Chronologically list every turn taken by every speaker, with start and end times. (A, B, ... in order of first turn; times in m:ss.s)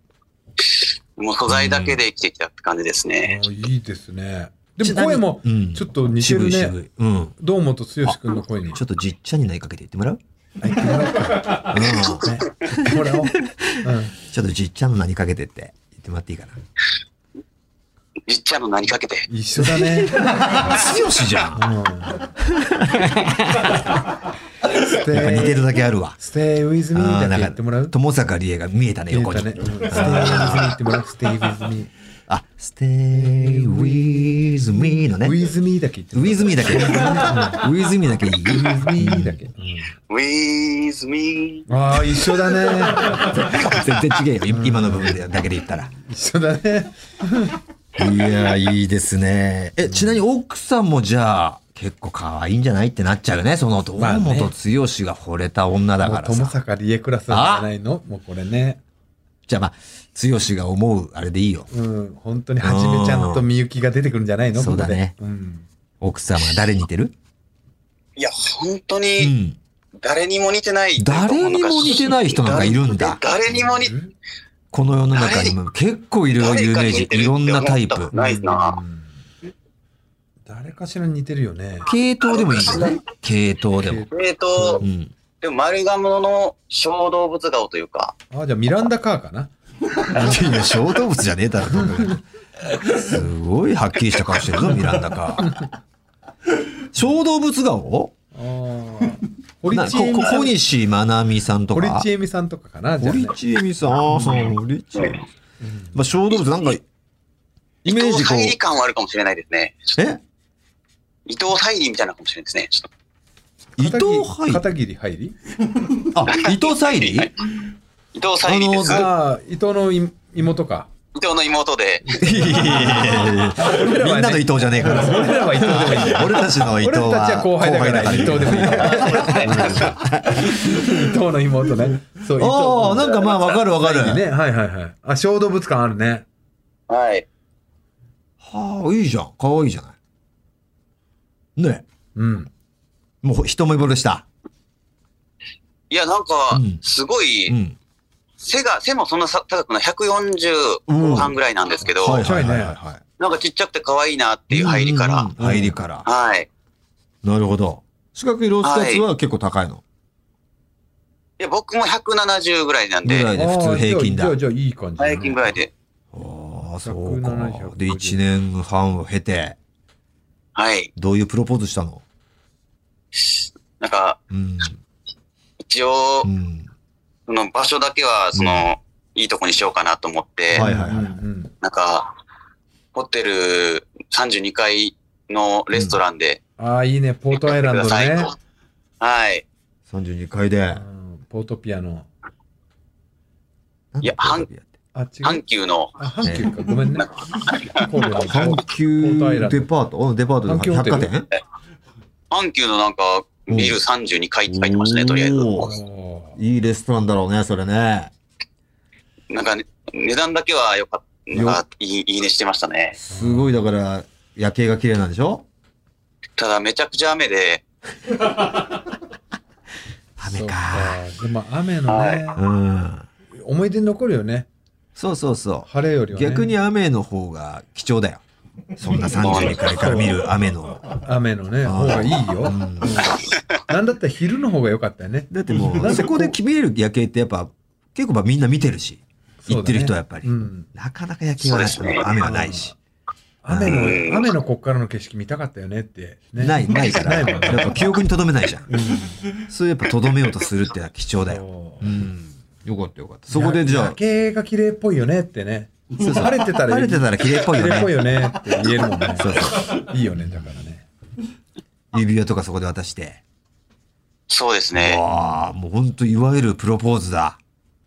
0:00.6-0:03.4 A
0:01.5-0:02.0 B
0:03.2-0:06.8 C
0:04.8-0:07.3 B
0:07.4-0:08.8 C
0:08.7-0:10.2 B
0:10.6-0:14.1 C
0:11.5-0:16.6 B
0:18.3-0:19.3 A
0:19.3-0:20.6 C
0:19.6-0:21.6 B
0:21.5-0:22.3 C
0:22.4-0:23.9 B
0:24.7-0:25.6 C
0:25.1-0:26.2 B
0:26.2-0:27.9 C
0:26.9-0:30.7 B
0:29.1-0:31.9 C
0:32.3-0:35.4 B
0:33.1-0:37.6 C
0:36.1-0:39.4 B
0:38.5-0:39.9 C
0:40.1-0:41.7 A
0:41.7-0:43.4 C
0:43.0-0:45.9 B
0:44.5-0:45.2 C
0:45.9-0:47.6 C
0:48.0-0:56.6 B
0:49.9-0:50.2 C
0:54.0-0:54.5 C
0:56.0-0:58.8 C
0:57.3-0:57.7 B
0:59.5-1:01.7 B
1:01.7-1:05.6 C
1:02.6-1:03.4 B
1:04.6-1:05.1 B
1:06.0-1:07.1 B
1:08.2-1:09.3 A
1:09.2-1:09.6 B
1:10.0-1:13.9 A
1:11.0-1:13.2 B
1:13.5-1:14.1 C
1:14.7-1:18.1 B
1:15.1-1:15.5 A
1:16.4-1:18.8 A
1:18.1-1:19.1 C
1:20.4-1:21.9 C
1:21.8-1:24.0 B
1:22.2-1:23.0 A
1:23.8-1:24.9 C
1:24.1-1:24.8 A
1:24.8-1:25.1 B
1:25.4-1:28.1 A
1:28.3-1:29.5 C
1:30.1-1:32.2 B
1:30.1-1:30.4 C
1:31.7-1:32.1 C
1:32.8-1:35.6 B
1:36.9-1:38.1 B
1:38.3-1:40.6 C
1:39.7-1:42.1 B
1:41.7-1:43.4 C
1:43.0-1:45.2 B
1:44.1-1:44.5 C
1:45.6-1:45.9 C
1:45.9-1:46.8 B
1:47.8-1:49.9 A
1:47.8-1:48.5 B
1:51.2-1:52.9 A
1:53.8-1:54.6 B
1:53.8-1:55.4 C
1:56.0-1:57.3 B
1:56.3-1:57.3 A
1:58.1-1:59.1 A
1:58.4-1:59.1 B
1:58.8-2:00.9 C
2:01.1-2:02.2 A
2:02.1-2:13.2 C
2:02.2-2:10.9 B
2:09.0-2:09.9 A
2:12.4-2:14.2 B
2:13.0-2:13.6 A
2:13.8-2:16.2 C
2:16.9-2:17.2 A
2:18.4-2:19.9 B
2:21.6-2:21.8 B
2:22.1-2:22.5 C
2:23.2-2:24.2 B
2:25.9-2:27.5 A
2:26.5-2:26.8 B
2:27.5-2:27.8 B
2:28.4-2:32.2 A
2:30.9-2:31.3 B
2:32.0-2:33.0 B
2:32.1-2:32.8 C
2:33.2-2:35.3 A
2:34.5-2:36.0 B
2:35.4-2:35.8 C
2:36.0-2:36.5 A
2:37.2-2:39.8 B
2:38.6-2:39.0 A
2:41.4-2:43.3 A
2:43.0-2:44.4 B
2:43.3-2:45.5 C
2:45.0-2:45.7 A
2:46.1-2:49.6 B
2:46.8-2:48.2 C
2:50.6-2:50.9 A
2:51.0-2:52.0 B
2:53.2-2:54.2 A
2:54.3-2:54.8 B
2:55.6-2:56.3 A
2:56.2-2:56.7 B
2:57.3-3:00.6 A
2:58.3-2:58.7 B
3:00.5-3:01.5 C
3:00.5-3:01.2 B
3:01.6-3:02.1 A
3:02.9-3:06.4 A
3:05.7-3:06.0 B
3:06.6-3:08.3 C
3:07.4-3:08.3 A
3:09.0-3:09.4 A
3:09.9-3:10.8 B
3:10.7-3:12.1 C
3:13.9-3:14.7 B
3:14.0-3:14.4 A
3:14.9-3:15.4 C
3:15.2-3:16.0 A
3:16.0-3:17.1 C
3:16.2-3:16.5 B
3:17.0-3:17.8 A
3:17.7-3:19.7 C
3:18.3-3:21.3 B
3:20.4-3:21.1 C
3:22.3-3:25.6 A
3:23.5-3:23.8 B
3:24.5-3:25.7 B
3:25.6-3:26.4 C
3:26.4-3:28.1 B
3:29.3-3:33.0 A
3:31.3-3:31.6 B
3:32.9-3:35.4 B
3:33.1-3:33.5 C
3:36.4-3:37.6 A
3:40.2-3:41.0 B
3:40.2-3:42.4 C
3:41.9-3:42.2 A
3:42.4-3:43.1 B
3:43.3-3:44.5 C
3:45.0-3:48.2 B
3:45.7-3:46.5 C
3:48.8-3:50.9 B
3:49.2-3:49.7 A
3:49.6-3:50.2 C
3:50.9-3:56.4 C
3:51.6-3:53.0 B
3:55.3-4:02.7 B
3:59.4-4:00.7 C
4:01.4-4:02.0 A
4:02.1-4:02.7 C
4:03.4-4:07.9 C
4:03.5-4:04.0 B
4:03.7-4:04.3 A
4:06.4-4:08.7 B
4:08.7-4:09.2 C
4:09.4-4:14.0 B
4:11.3-4:11.9 C
4:13.3-4:20.8 C
4:16.0-4:18.0 B
4:19.2-4:19.8 B
4:21.9-4:23.2 B
4:24.3-4:25.0 A
4:24.7-4:27.4 B